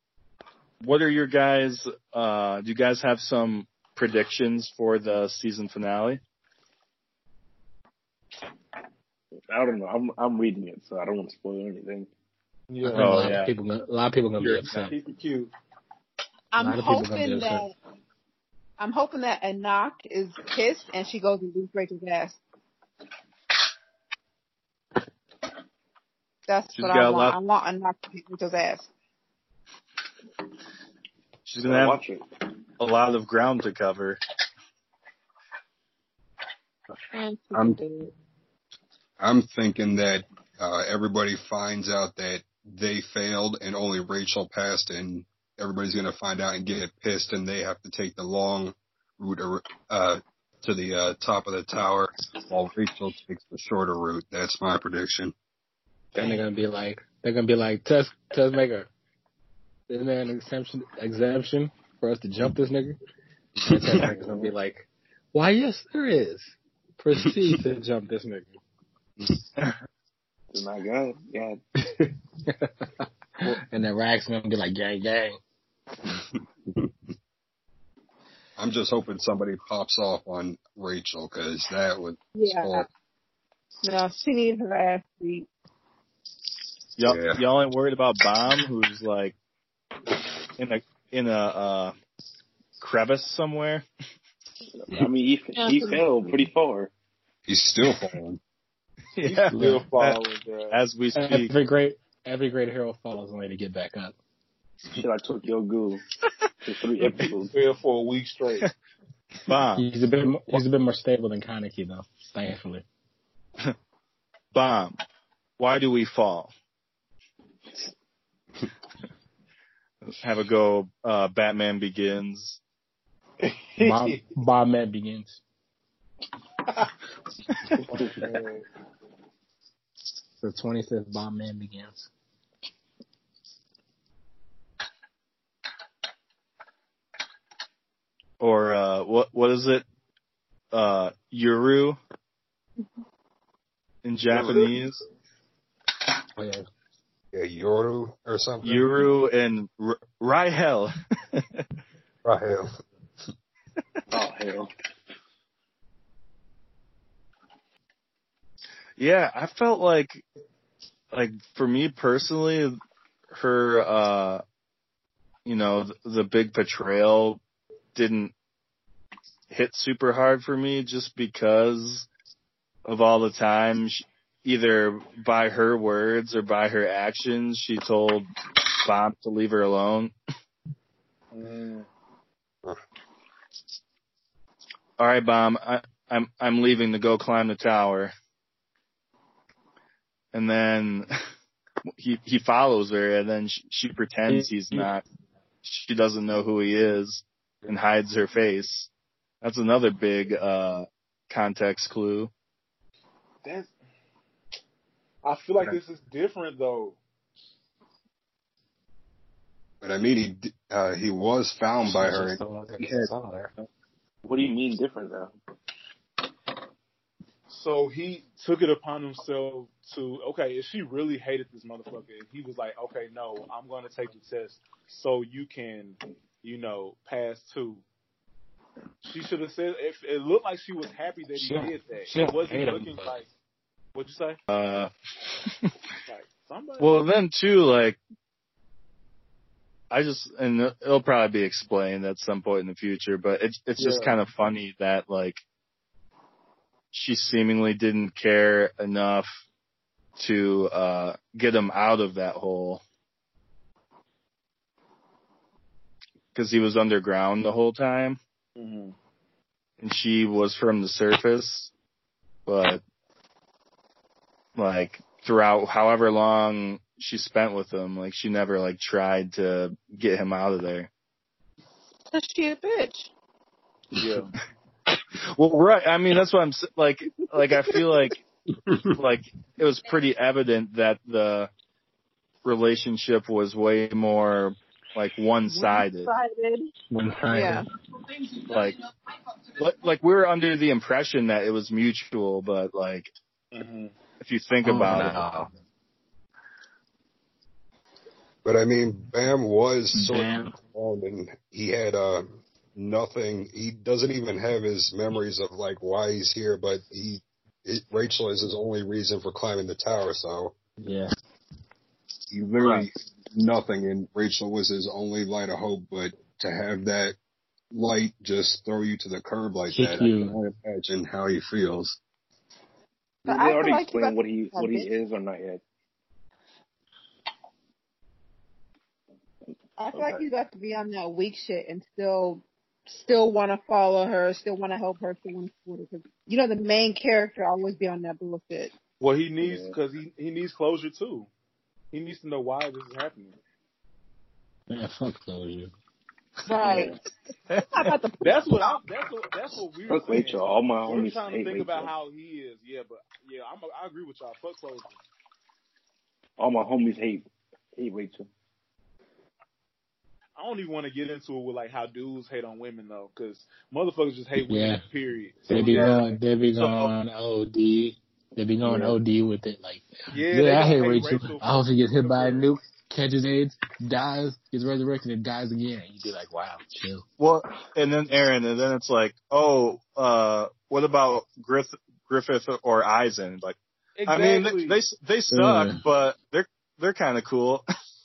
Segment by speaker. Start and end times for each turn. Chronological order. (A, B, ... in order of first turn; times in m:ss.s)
0:00.8-0:06.2 A
0:09.5-0:12.1 B
0:12.7-0:13.3 C
0:12.8-0:14.9 D
0:13.0-0:13.5 A
0:14.4-0:15.5 C
0:16.5-0:17.7 E
0:16.6-0:17.7 D
0:18.8-0:22.4 E
0:26.5-0:28.9 E
0:26.7-0:27.4 A
0:31.5-0:32.0 A
0:31.6-0:32.2 B
0:32.8-0:34.2 A
0:37.1-0:38.1 E
0:39.2-0:55.3 F
0:56.1-0:58.9 D
0:59.9-1:03.0 D
1:03.6-1:08.6 D
1:03.7-1:04.1 F
1:04.0-1:04.5 B
1:10.5-1:11.6 B
1:11.8-1:15.4 D
1:18.6-1:22.9 F
1:22.3-1:22.9 E
1:23.8-1:25.5 E
1:27.0-1:29.3 A
1:27.0-1:27.4 F
1:30.6-1:31.9 A
1:32.8-1:33.8 A
1:34.8-1:36.9 B
1:35.5-1:36.0 E
1:37.5-1:38.4 F
1:39.1-1:40.2 A
1:39.2-1:40.8 C
1:39.5-1:39.8 D
1:40.7-1:41.5 A
1:41.1-1:44.1 D
1:44.9-1:46.0 B
1:46.6-1:47.6 B
1:47.5-1:48.7 C
1:49.5-1:49.8 A
1:49.7-1:52.8 D
1:54.5-1:55.0 A
1:55.6-1:56.5 A
2:00.0-2:02.6 A
2:03.4-2:04.2 C
2:03.8-2:05.4 D
2:07.9-2:08.6 C
2:10.4-2:12.1 D
2:18.4-2:19.8 A
2:20.7-2:22.0 A
2:24.0-2:25.0 A
2:26.4-2:26.6 D
2:27.3-2:28.8 F
2:28.6-2:31.6 A
2:32.2-2:32.7 F
2:34.1-2:34.7 B
2:39.0-2:40.2 A
2:41.1-2:42.8 A
2:43.3-2:44.4 A
2:45.4-2:47.4 A
2:47.9-2:48.3 A
2:49.5-2:52.1 A
2:52.8-3:00.1 A
3:01.3-3:01.9 C
3:05.0-3:08.1 A
3:10.3-3:11.1 A
3:12.0-3:15.0 A
3:14.3-3:14.9 D
3:15.6-3:18.9 A
3:19.4-3:22.3 A
3:23.4-3:23.7 C
3:25.2-3:27.0 C
3:29.8-3:32.4 F
3:31.8-3:33.5 D
3:34.2-3:35.3 B
3:37.5-3:47.8 C
3:49.0-3:53.3 C
3:51.4-3:53.2 D
3:53.9-3:54.4 C
3:54.5-3:55.7 A
3:56.0-3:57.0 C
3:56.8-3:58.0 A
3:59.9-4:05.4 A
4:03.8-4:04.2 C
4:06.9-4:09.4 A
4:10.2-4:12.8 A
4:16.3-4:18.2 A
4:18.6-4:18.9 C
4:19.8-4:21.7 A
4:22.5-4:22.8 A
4:24.6-4:30.9 A
4:32.1-4:33.1 E
4:34.0-4:34.3 C
4:35.2-4:38.2 A
4:39.0-4:41.5 A
4:42.4-4:46.1 A
4:45.5-4:46.7 E
4:46.9-4:47.7 D
4:47.3-4:47.7 E
4:48.4-4:48.8 A
4:49.6-4:53.1 A
4:53.5-4:53.9 C
4:54.2-4:55.2 A
4:54.6-4:55.5 D
4:58.4-5:10.5 F
4:59.9-5:00.5 D
5:10.8-5:11.1 D
5:12.3-5:17.2 F
5:17.7-5:22.0 F
5:19.7-5:20.4 D
5:23.2-5:24.9 E
5:23.3-5:25.6 B
5:29.8-5:38.7 E
5:29.9-5:30.2 B
5:39.0-5:41.3 C
5:39.4-5:39.7 B
5:41.9-5:43.4 C
5:44.7-5:45.7 D
5:46.4-5:47.0 E
5:46.6-5:47.0 B
5:47.5-5:48.0 A
5:47.7-5:48.8 E
5:48.2-5:55.0 C
5:49.9-5:51.9 B
5:56.4-5:57.2 B
5:57.8-5:58.3 B
6:00.4-6:06.1 C
6:04.4-6:04.8 D
6:05.5-6:17.0 D
6:05.5-6:06.0 B
6:06.5-6:06.9 A
6:10.1-6:12.5 C
6:17.2-6:27.6 A
6:24.0-6:24.8 C
6:25.3-6:25.8 D